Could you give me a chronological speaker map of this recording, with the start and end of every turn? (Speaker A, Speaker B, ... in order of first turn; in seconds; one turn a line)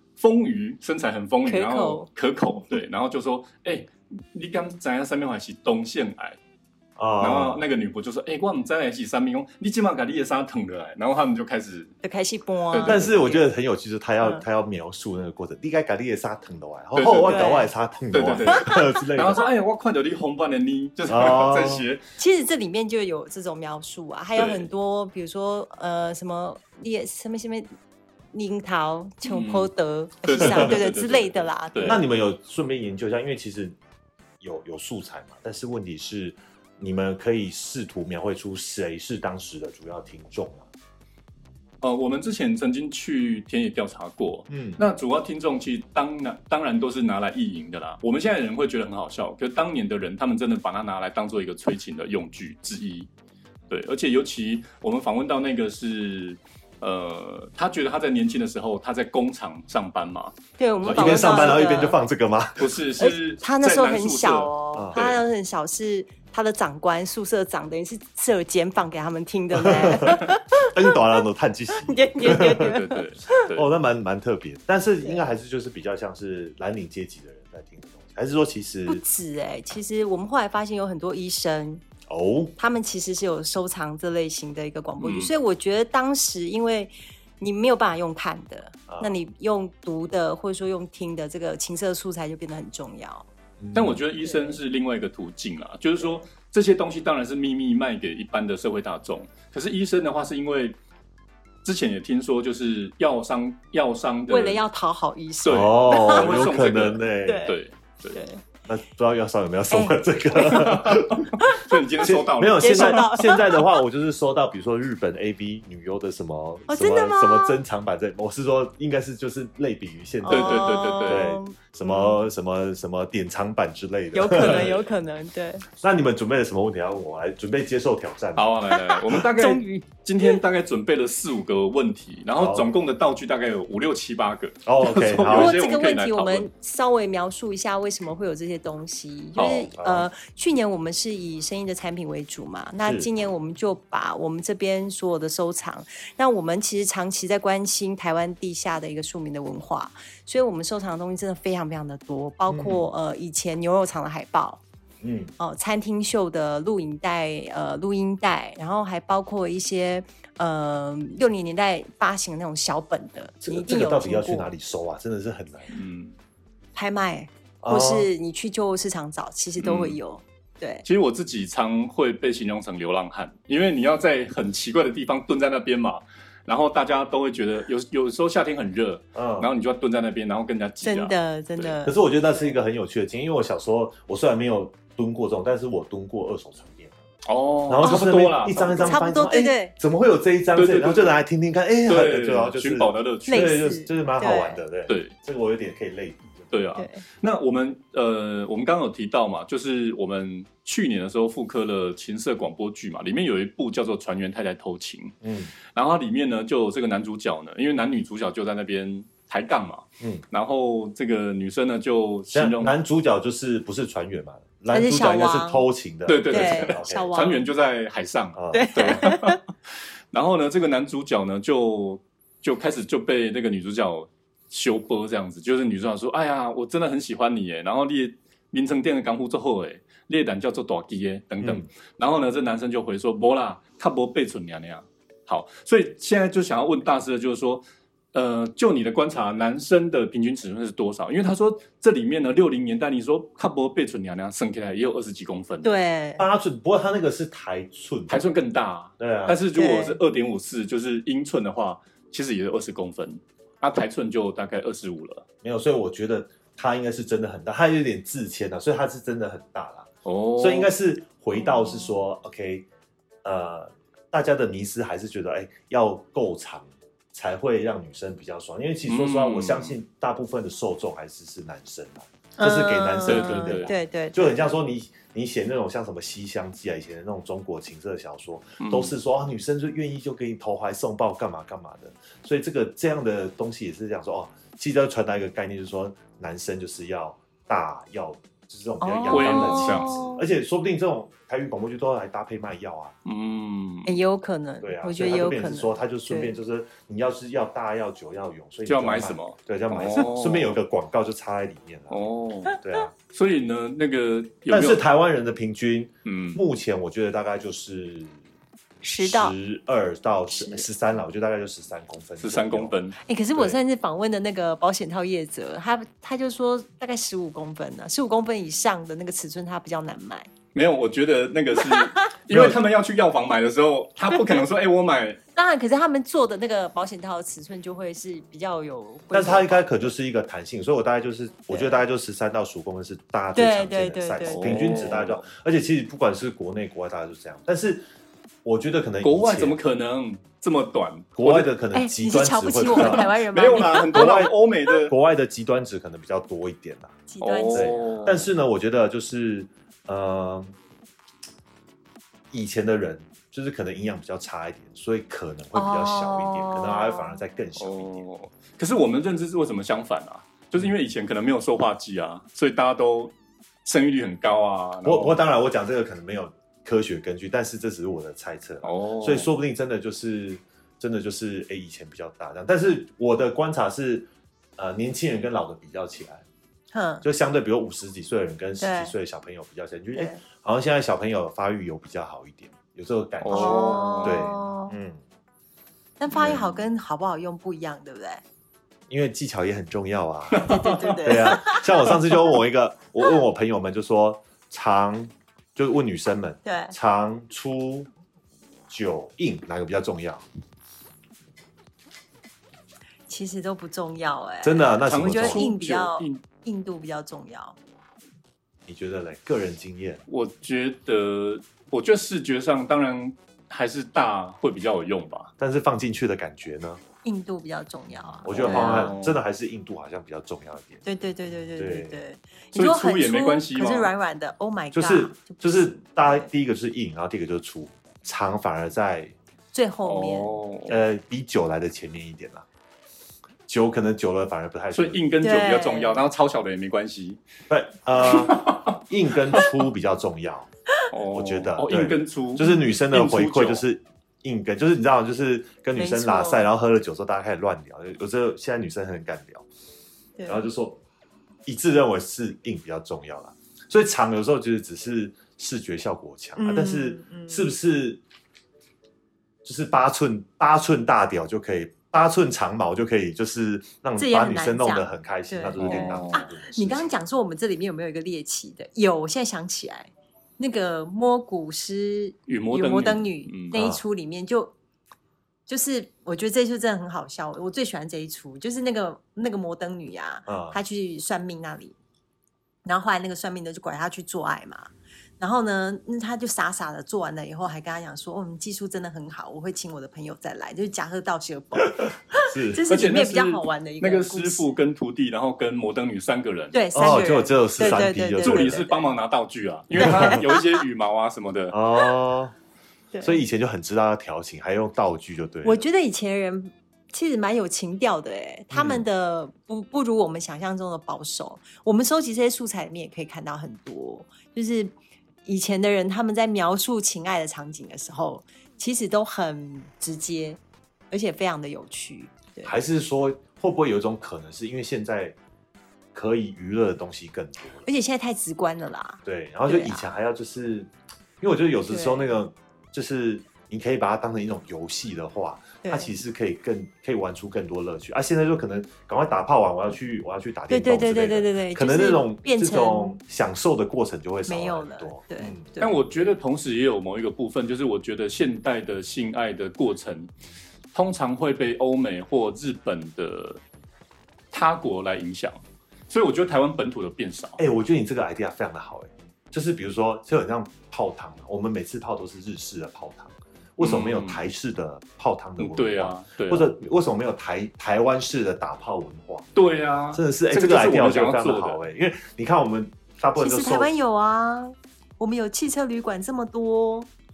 Speaker A: 0.2-6.4
Speaker B: 1.4-2.1
Speaker C: 7.0-7.6
Speaker A: 7.2-11.9
Speaker B: 12.0-13.5
Speaker A: 12.7-13.1
Speaker C: 12.8-19.4
Speaker A: 16.9-17.6
Speaker B: 17.0-17.7
Speaker A: 18.1-22.0
Speaker B: 18.5-19.0
Speaker C: 21.1-21.9
Speaker B: 22.2-27.7
Speaker A: 24.3-24.7
Speaker B: 28.3-32.0
Speaker A: 29.2-29.7
Speaker A: 30.2-32.0
Speaker C: 30.4-30.7
Speaker C: 31.8-33.7
Speaker C: 34.4-40.7
Speaker A: 41.8-53.1
Speaker C: 44.5-44.8
Speaker A: 53.7-61.6
Speaker B: 60.6-62.0
Speaker C: 60.8-62.7
Speaker A: 62.6-65.2
Speaker B: 63.0-71.0
Speaker C: 64.7-65.0
Speaker C: 69.5-72.8
Speaker B: 71.8-73.1
Speaker A: 72.2-73.7
Speaker C: 73.5-79.0
Speaker B: 78.9-81.8
Speaker C: 82.1-82.5
Speaker B: 82.6-93.3
Speaker A: 85.0-85.3
Speaker C: 88.9-89.1
Speaker C: 93.6-94.0
Speaker A: 93.7-100.8
Speaker B: 94.2-94.6
Speaker A: 101.6-104.6
Speaker B: 104.3-106.3
Speaker A: 105.4-108.2
Speaker C: 105.5-107.5
Speaker B: 107.2-107.6
Speaker B: 108.1-108.4
Speaker C: 108.7-111.3
Speaker B: 109.7-110.7
Speaker A: 110.4-113.0
Speaker B: 111.4-111.7
Speaker C: 112.0-124.8
Speaker B: 112.6-113.7
Speaker B: 116.7-117.6
Speaker B: 120.2-122.2
Speaker A: 120.3-121.3
Speaker B: 124.1-125.6
Speaker C: 125.8-128.5
Speaker A: 128.3-136.5
Speaker B: 128.7-130.4
Speaker C: 132.3-132.7
Speaker C: 134.7-135.5
Speaker B: 135.2-154.6
Speaker A: 139.3-139.7
Speaker C: 139.8-140.1
Speaker C: 142.8-143.1
Speaker C: 152.5-152.9
Speaker C: 155.0-155.3
Speaker B: 155.4-164.5
Speaker C: 163.4-165.7
Speaker A: 165.7-166.2
Speaker B: 166.7-170.8
Speaker C: 167.6-168.1
Speaker A: 169.6-170.0
Speaker A: 170.8-181.8
Speaker C: 179.1-179.5
Speaker B: 180.8-181.9
Speaker C: 181.8-187.0
Speaker A: 187.2-189.1
Speaker C: 187.7-196.5
Speaker B: 188.8-189.7
Speaker A: 190.5-191.2
Speaker A: 191.9-193.7
Speaker B: 193.3-194.6
Speaker A: 194.9-195.1
Speaker A: 196.5-205.2
Speaker B: 196.8-197.0
Speaker C: 205.2-205.5
Speaker A: 205.7-212.7
Speaker C: 212.3-217.1
Speaker B: 214.7-215.6
Speaker A: 216.1-219.4
Speaker B: 216.3-217.5
Speaker C: 218.3-218.7
Speaker B: 218.5-219.4
Speaker A: 220.1-245.8
Speaker B: 245.6-246.2
Speaker C: 246.2-248.2
Speaker A: 248.1-255.2
Speaker C: 249.0-249.4
Speaker B: 249.5-250.0
Speaker C: 255.4-262.7
Speaker A: 260.0-260.7
Speaker C: 263.2-292.9
Speaker A: 268.9-269.8
Speaker B: 272.4-274.4
Speaker A: 273.1-273.7
Speaker A: 278.6-278.9
Speaker B: 288.8-290.2
Speaker A: 289.1-290.0
Speaker A: 293.0-293.9
Speaker B: 293.8-296.3
Speaker C: 294.6-302.0
Speaker A: 298.7-300.6
Speaker A: 301.9-302.6
Speaker C: 302.6-302.9
Speaker A: 303.1-304.8
Speaker C: 304.5-308.2
Speaker A: 306.0-306.4
Speaker B: 308.8-309.3
Speaker C: 309.0-312.8
Speaker B: 310.3-310.7
Speaker A: 312.2-313.0
Speaker B: 313.0-320.3
Speaker A: 320.5-325.2
Speaker B: 321.6-321.9
Speaker C: 322.3-322.6
Speaker B: 324.1-324.4
Speaker B: 325.3-329.9
Speaker C: 329.1-337.9
Speaker B: 331.5-331.8
Speaker B: 333.3-334.9
Speaker A: 334.2-335.3
Speaker C: 338.4-339.6
Speaker A: 339.0-341.5
Speaker C: 341.1-343.1
Speaker B: 341.7-344.3
Speaker A: 342.7-344.9
Speaker C: 343.9-344.3
Speaker C: 344.9-347.0
Speaker B: 347.1-348.1
Speaker A: 347.2-348.3
Speaker C: 347.5-350.5
Speaker C: 352.3-358.0
Speaker B: 355.5-357.2
Speaker A: 357.6-363.1
Speaker A: 363.6-365.2
Speaker C: 364.8-376.2
Speaker A: 368.6-369.3
Speaker B: 376.7-377.0
Speaker C: 377.0-385.0
Speaker B: 378.6-378.9
Speaker B: 379.9-380.2
Speaker A: 383.2-384.2
Speaker B: 383.3-384.8
Speaker B: 386.0-388.2
Speaker C: 386.1-386.6
Speaker C: 388.9-397.9
Speaker A: 390.3-391.4
Speaker B: 390.4-392.3
Speaker B: 396.4-396.7
Speaker C: 398.7-400.2
Speaker B: 403.1-407.6
Speaker C: 404.4-405.4
Speaker A: 404.8-406.2
Speaker C: 408.7-410.0
Speaker A: 410.1-415.3
Speaker C: 415.4-416.8
Speaker B: 417.0-418.9
Speaker C: 418.2-420.8
Speaker A: 418.3-419.2
Speaker B: 420.8-426.3
Speaker C: 421.6-422.0
Speaker A: 422.5-423.9
Speaker C: 424.7-429.1
Speaker B: 429.5-430.3
Speaker A: 429.8-430.7
Speaker C: 430.7-432.4
Speaker C: 433.5-435.0
Speaker A: 434.7-437.2
Speaker B: 435.2-436.0
Speaker C: 437.5-440.5
Speaker A: 438.1-438.8
Speaker A: 440.9-443.6
Speaker C: 441.1-449.4
Speaker B: 445.8-446.4
Speaker B: 450.2-450.4
Speaker C: 450.2-450.8
Speaker C: 451.4-458.0
Speaker B: 456.4-457.5
Speaker C: 459.4-467.0
Speaker B: 464.0-474.5
Speaker A: 465.6-466.2
Speaker A: 472.3-473.6
Speaker C: 473.5-473.8
Speaker B: 475.5-481.8
Speaker C: 480.3-480.6
Speaker B: 482.6-494.6
Speaker C: 491.6-492.6
Speaker A: 492.7-496.6
Speaker B: 496.5-498.9
Speaker C: 496.7-498.6
Speaker A: 497.6-501.6
Speaker C: 499.8-500.2
Speaker B: 499.8-500.6
Speaker C: 501.5-502.3
Speaker B: 502.9-503.2
Speaker C: 503.0-505.6
Speaker B: 505.4-520.4
Speaker C: 508.5-508.8
Speaker B: 520.9-522.5
Speaker C: 522.4-525.2
Speaker C: 525.9-527.7
Speaker B: 527.6-529.9
Speaker C: 529.0-545.5
Speaker B: 531.7-532.1
Speaker B: 535.6-535.9
Speaker B: 540.5-543.0
Speaker B: 544.2-545.8
Speaker A: 545.6-550.1
Speaker A: 550.7-553.4
Speaker A: 554.3-555.4
Speaker A: 555.9-557.4
Speaker C: 557.4-569.3
Speaker A: 563.6-564.3
Speaker A: 565.4-566.5
Speaker A: 569.3-571.6
Speaker C: 569.9-573.7
Speaker B: 573.1-576.9